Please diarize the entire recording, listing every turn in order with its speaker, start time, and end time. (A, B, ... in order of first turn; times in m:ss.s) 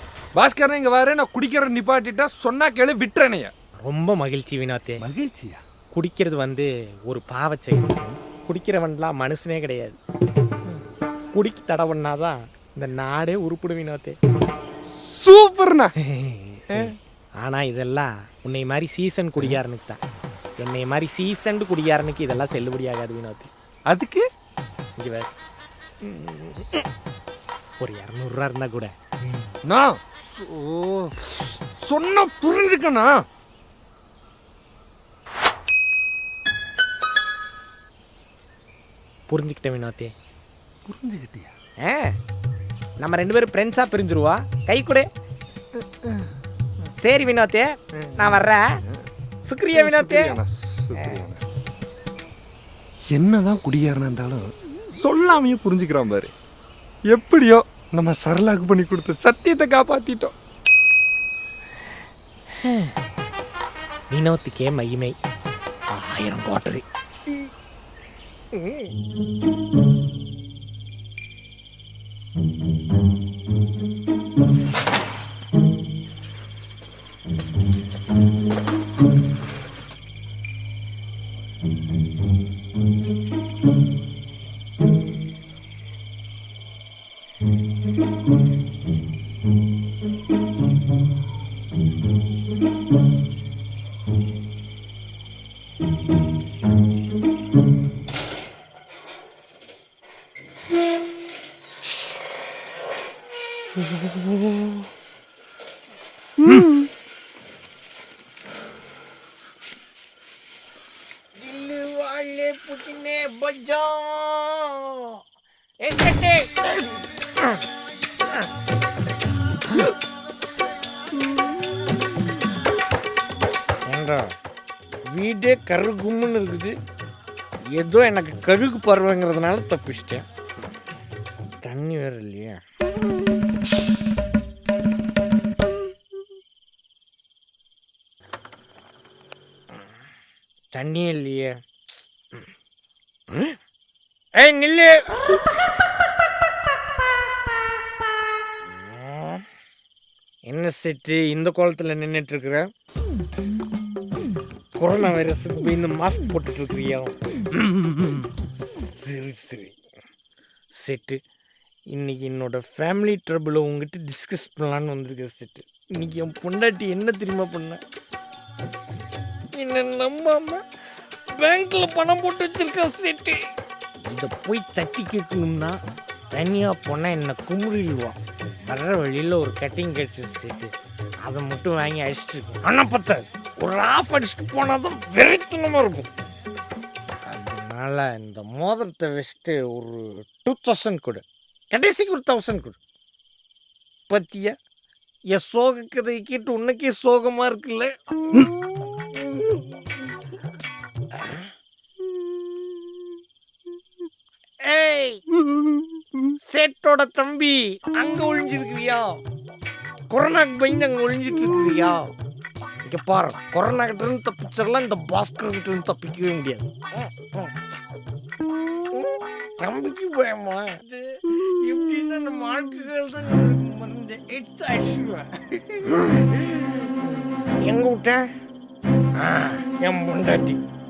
0:00.4-0:03.5 A
0:03.8-0:05.0 B
0:05.0-0:05.6 A
0:05.9-0:10.0 B
0:11.3-0:14.2 B
0:14.9-0:15.9 A
0:16.0-0:20.0 B
0:20.6-0:23.5 B
0:23.9-0:24.3 A
0:25.0-0:25.3 B
0:26.0-0:26.9 B
0:27.8-0:28.9 B
0:29.6-0:33.2 A
0:39.3-0:40.1 B
0:40.9-0:41.5 A
0:41.8-0:42.2 B
0:43.0-0:45.1 B
0:45.8-0:46.3 A
0:46.8-0:48.6 B
0:48.0-0:48.4 A
0:49.4-0:50.4 B
0:49.7-0:51.4 A
0:51.0-0:51.3 B
0:53.1-0:56.3 A
0:57.1-1:00.3 A
1:02.6-1:03.0 B
1:04.1-1:05.2 B
1:05.9-1:07.5 B
1:08.5-1:08.9 B
1:51.4-1:55.2 B
1:55.8-1:57.6 B
2:03.9-2:04.3 B
2:05.1-2:06.8 B
2:07.7-2:10.2 B
2:11.6-2:12.6 B
2:20.7-2:21.6 B
2:23.3-2:23.6 B
2:24.4-2:25.1 B
2:28.8-2:29.4 B
2:30.5-2:32.7 B
2:34.8-2:37.2 B
2:37.7-2:38.0 B
2:38.6-2:39.8 B
2:40.7-2:41.2 B
2:41.9-2:47.8 B
2:49.6-2:50.6 B
2:51.3-2:53.4 B
2:54.0-2:55.7 B
2:56.3-3:00.7 B
3:01.2-3:06.1 B
3:07.2-3:12.8 B
3:14.1-3:14.6 B
3:15.3-3:18.5 B
3:24.6-3:25.2 B
3:26.3-3:29.2 B
3:30.1-3:32.1 B
3:32.8-3:37.5 B
3:38.9-3:48.3 B
3:49.2-3:50.6 B